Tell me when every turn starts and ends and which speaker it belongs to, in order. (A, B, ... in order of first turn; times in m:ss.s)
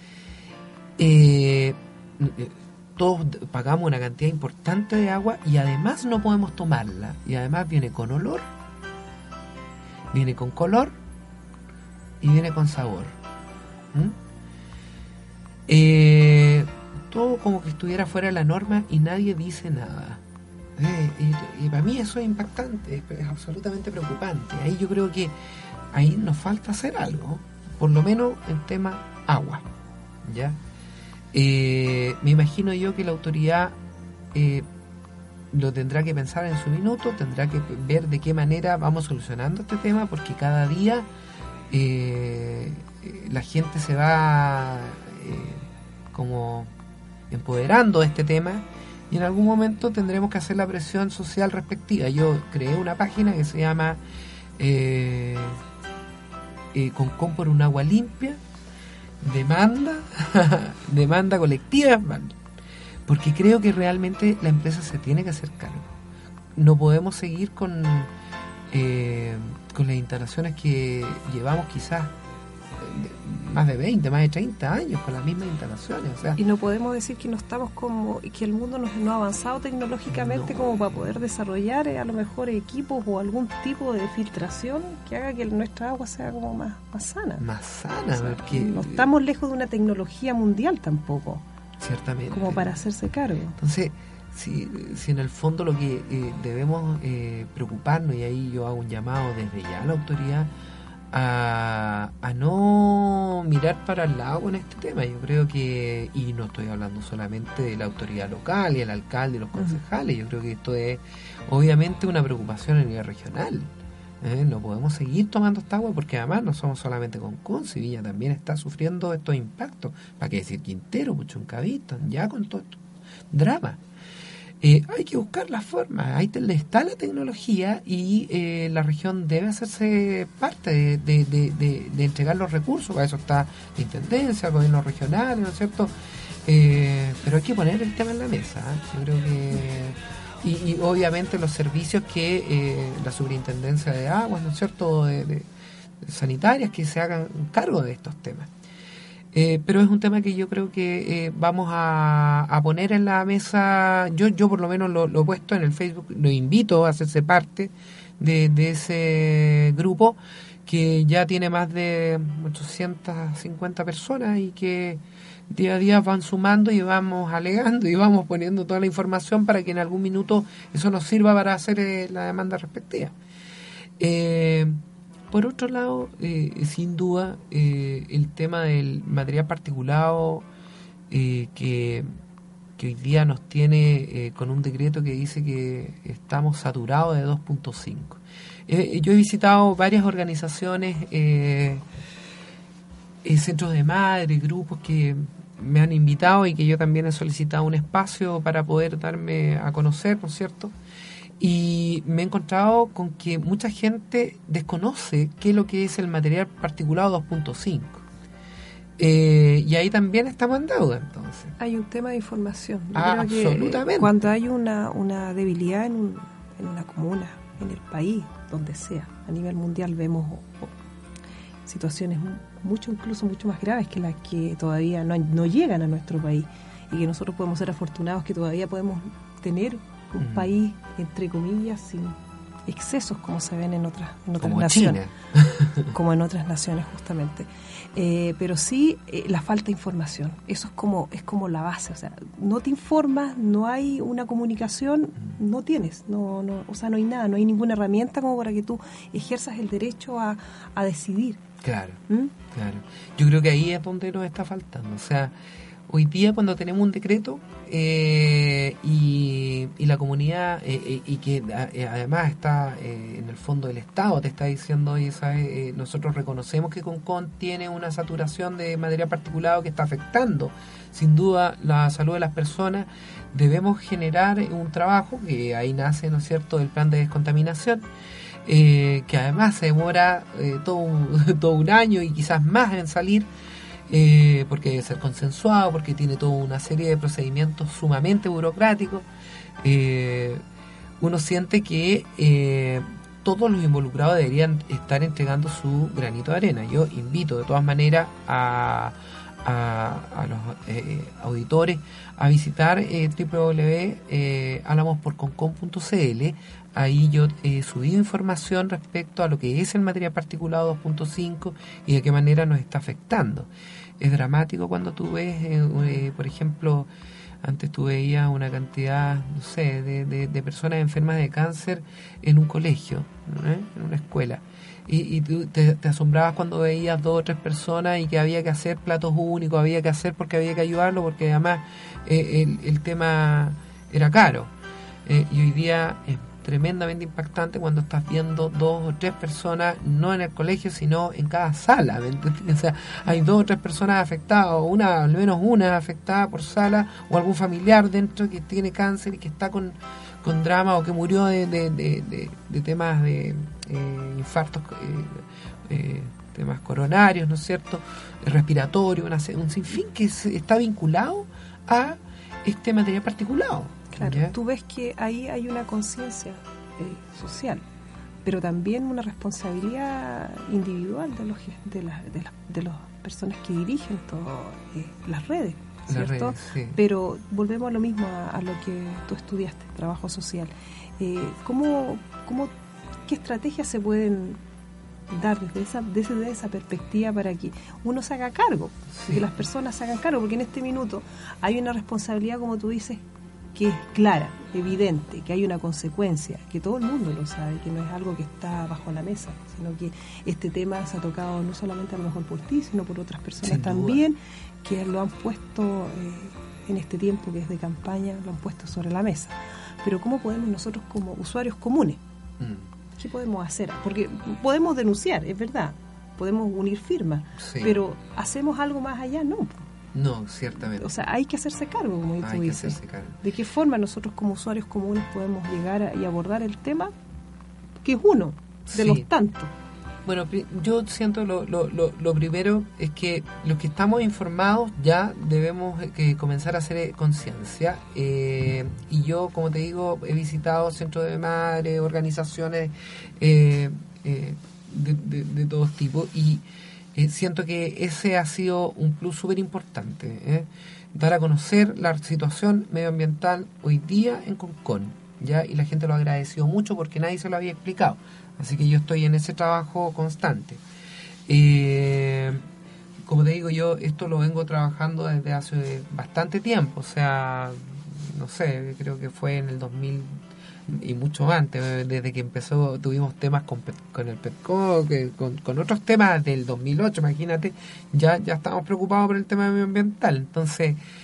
0:01.0-0:08.5 A
0:10.1-0:11.0 A
0:12.2-0:13.2 A
0:15.7-0:20.2 A
0:20.8-0:25.4 A
0:25.9-0:29.7 A
0:30.2-0:30.6 A
0:31.3-0:33.8 A
0:34.3-0:34.7 A
0:35.5-0:41.1 A
0:41.7-0:46.7 A
0:47.3-0:54.0 A
0:54.6-0:55.6 A
0:56.7-0:58.4 A
0:59.2-1:02.4 A
1:03.1-1:06.0 A
1:06.6-1:08.1 A
1:08.7-1:12.1 A
1:12.8-1:16.4 A
1:16.4-1:27.4 B
1:20.1-1:21.0 A
1:27.4-1:29.1 A
1:28.1-1:31.4 B
1:31.8-1:32.8 A
1:32.3-1:33.6 B
1:33.6-1:40.5 A
1:41.1-2:02.8 A
2:03.3-2:03.8 A
2:04.6-2:15.9 A
2:16.4-2:25.5 A
2:26.0-2:28.5 A
2:29.3-2:53.2 A
2:54.0-3:00.5 A
3:01.1-3:02.1 A
3:02.8-3:11.8 A
3:13.2-3:20.8 A
3:21.4-3:28.0 A
3:29.0-3:31.6 A
3:31.6-3:40.7 B
3:32.9-3:34.3 A
3:41.7-3:55.0 B
3:50.2-3:50.6 A
3:54.4-3:55.9 A
3:55.9-4:11.4 B
4:11.6-4:15.4 A
4:15.9-4:37.9 A
4:38.4-4:43.3 A
4:43.9-4:49.1 A
4:49.6-4:50.4 A
4:51.0-5:16.9 A
5:17.4-5:34.5 A
5:35.1-6:04.4 A
6:03.9-6:07.6 B
6:08.2-6:22.5 B
6:15.9-6:16.8 A
6:23.1-6:24.4 B
6:25.1-6:33.0 B
6:28.9-6:29.3 A
6:33.5-6:52.0 B
6:43.4-6:44.0 A
6:52.4-6:52.7 A
6:53.0-6:59.7 B
6:57.4-6:57.8 A
6:59.9-7:00.9 A
7:00.8-7:06.9 B
7:02.2-7:03.2 A
7:07.8-7:09.5 B
7:08.7-7:09.1 A
7:10.0-7:40.6 A
7:41.3-7:42.5 A
7:43.0-8:00.8 A